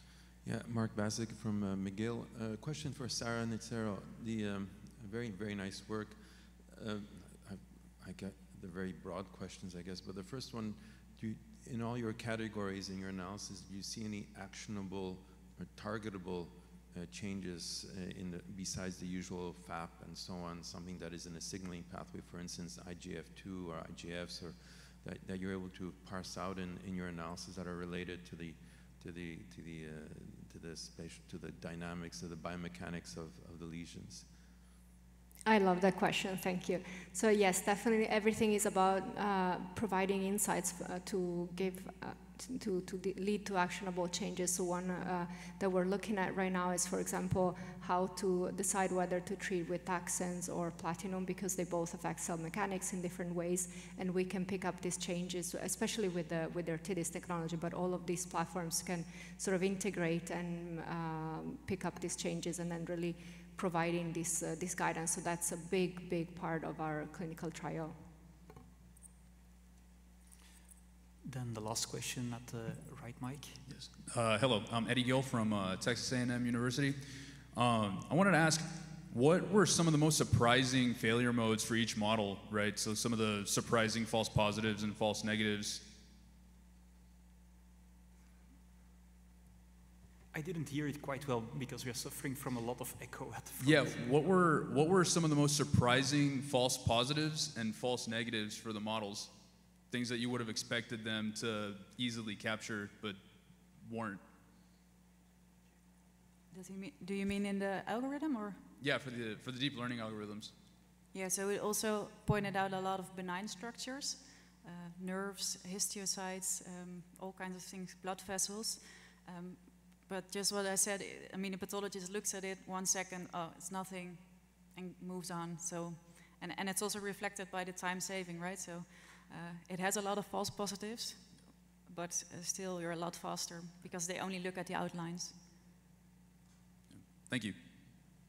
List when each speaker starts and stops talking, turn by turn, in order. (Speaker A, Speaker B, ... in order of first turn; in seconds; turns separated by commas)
Speaker A: 0.4-34.3, Speaker B: 35.5-68.0, Speaker C: 71.2-73.7, Speaker D: 73.7-85.9, Speaker C: 90.3-94.1, Speaker D: 93.6-99.4, Speaker D: 99.9-103.2, Speaker D: 103.8-104.2, Speaker E: 106.5-108.7, Speaker D: 108.8-110.5, Speaker E: 111.1-131.3, Speaker E: 131.9-135.4, Speaker D: 137.1-137.6